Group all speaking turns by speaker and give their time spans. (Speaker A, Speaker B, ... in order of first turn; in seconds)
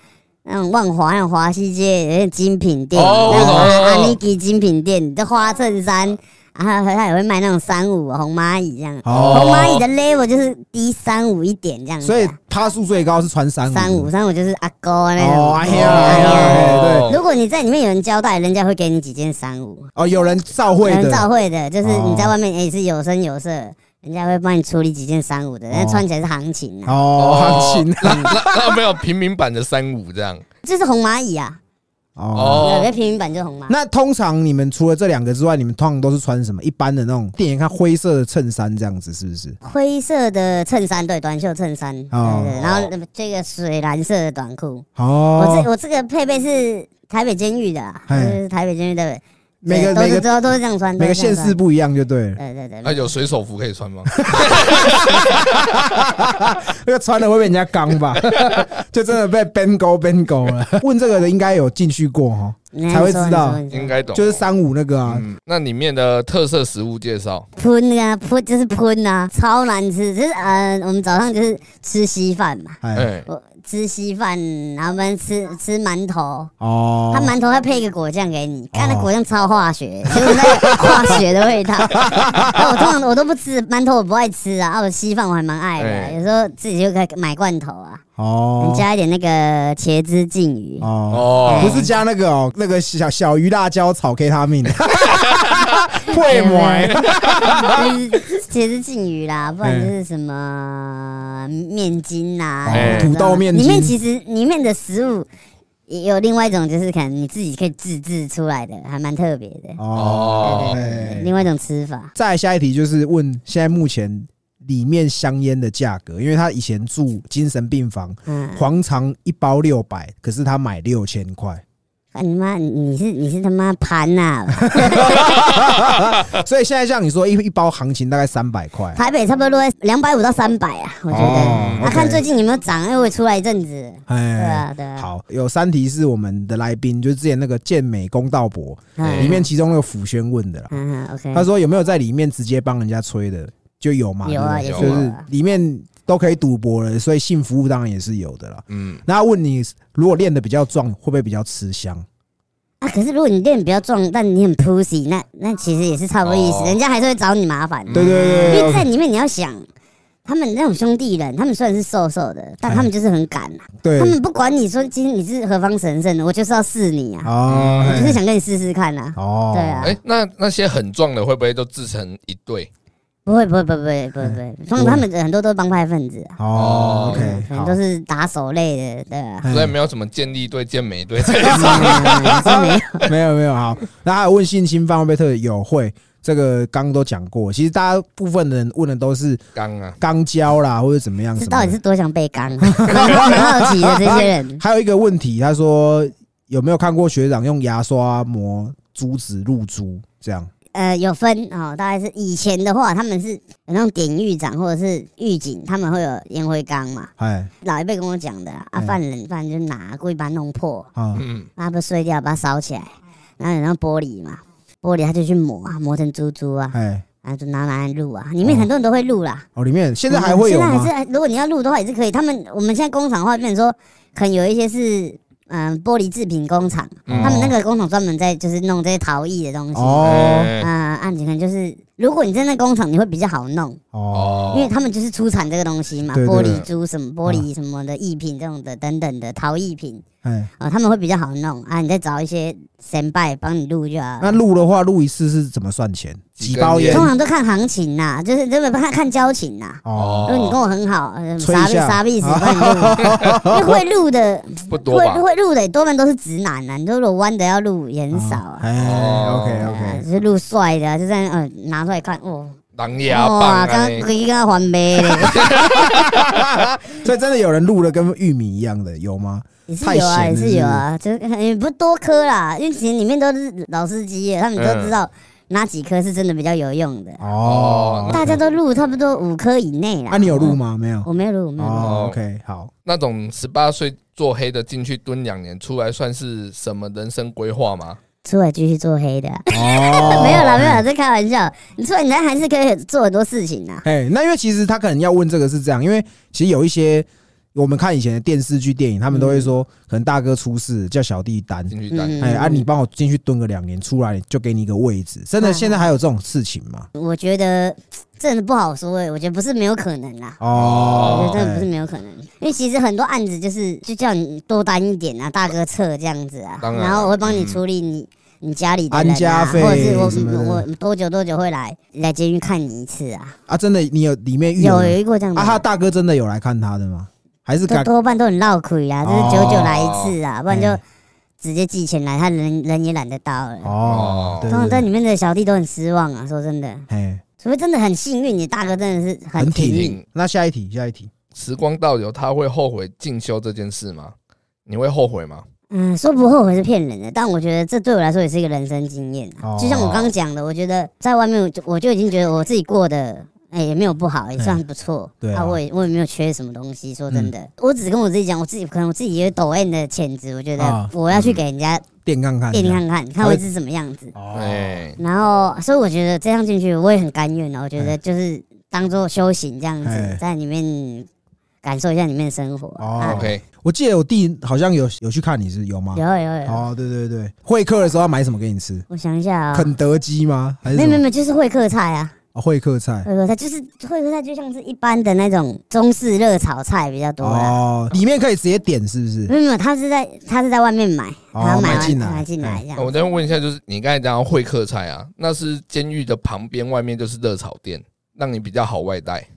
Speaker A: 0.4-12.3, 13.7-19.9, 20.8-27.0, 28.0-28.3, 30.6-31.6, 32.5-33.8, 39.6-51.6, 52.4-53.1, 62.7-64.0, 67.5-76.5, 77.1-88.0, 88.6-90.9, 91.4-91.9, 96.1-97.0, 97.6-105.3, 105.9-109.8, 110.4-112.1, 118.3-118.7, 122.1-125.4, 128.9-135.1, 139.0-139.4, 140.7-141.4, 144.2-145.2, 152.8-159.7, 160.2-170.0, 173.2-176.4, 177.1-179.5, 181.5-183.1, 191.4-194.6, 200.7-207.1, 207.6-210.9, 211.6-219.4, 220.1-233.8, 234.5-240.0, 240.6-244.4, 246.9-258.6, 259.6-265.4, 269.7-277.3, 278.1-282.0, 288.2-293.8, 299.1-299.5, 301.9-302.6, 305.4-305.9, 306.9-310.4, 311.0-323.4, 324.6-325.6, 327.7-330.8, 331.4-333.8, 334.5-336.9, 337.4-340.0, 345.7-361.9, 362.5-364.1, 365.0-371.1, 371.6-373.2, 375.9-376.6, 378.9-379.7, 380.7-382.1, 383.0-387.6, 389.3-392.9
Speaker B: 2.9-4.2, 9.1-9.8, 15.7-17.2, 27.1-30.4, 32.3-32.9, 42.6-42.9, 52.8-55.5, 58.3-58.6, 63.7-64.4, 65.0-67.5, 72.9-73.3, 85.8-86.2, 91.1-91.8, 102.7-103.1, 109.9-110.8, 131.2-131.9, 139.0-139.4, 144.7-145.0, 148.7-149.0, 156.2-156.8, 157.9-158.7, 167.5-168.1, 169.8-172.7, 176.5-177.3, 179.5-182.6, 189.5-190.0, 211.1-211.5, 227.1-227.5, 230.0-230.7, 234.1-234.7, 236.3-236.7, 246.4-247.1, 249.9-250.6, 254.7-255.2, 258.8-259.7, 262.7-264.1, 265.0-266.4, 274.6-274.9, 277.4-278.3, 281.8-282.2, 282.8-288.0, 301.7-302.3, 310.6-311.4, 316.6-317.6, 329.2-330.1, 333.9-334.5, 339.7-340.0, 341.3-344.1, 344.6-345.4, 349.7-350.1, 361.1-361.4, 364.3-365.0, 373.0-373.4, 392.7-399.3
Speaker C: 3.3-3.7, 9.0-9.8, 12.0-14.1, 15.2-17.1, 19.9-21.3, 21.8-22.3, 25.7-26.0, 26.9-28.8, 32.1-32.7, 33.7-39.6, 42.1-42.6, 45.0-45.7, 48.1-48.4, 49.6-50.3, 51.0-52.4, 54.2-65.2, 72.8-73.1, 76.6-77.3, 78.7-79.1, 80.2-81.1, 82.0-82.7, 88.2-88.8, 90.8-97.9, 99.6-99.9, 102.6-104.0, 109.8-111.3, 112.2-121.6, 124.6-129.0, 131.1-132.2, 134.1-140.7, 141.3-152.1, 157.9-158.9, 162.6-162.9, 163.8-164.2, 167.2-168.2, 169.2-169.9, 174.2-175.0, 176.4-177.8, 179.4-179.7, 181.3-189.4, 190.0-191.8, 192.6-200.5, 207.2-207.5, 210.9-211.2, 216.7-217.0, 219.6-220.9, 227.1-227.5, 229.7-230.5, 233.9-234.4, 236.1-236.6, 240.2-240.5, 244.2-247.1, 249.8-250.3, 251.4-253.8, 258.1-260.0, 265.6-270.8, 277.2-278.4, 280.1-281.1, 281.6-282.7, 289.5-290.8, 293.8-306.9, 310.4-311.7, 318.9-320.6, 323.5-327.9, 329.0-329.7, 330.5-330.8, 333.6-334.8, 336.9-337.2, 339.4-341.1, 349.4-349.9, 354.4-354.6, 355.2-355.6, 360.6-360.9, 362.0-363.4, 364.1-364.8, 369.8-370.2, 372.8-378.9, 379.5-381.0, 382.3-383.1, 387.2-389.3, 391.3-392.6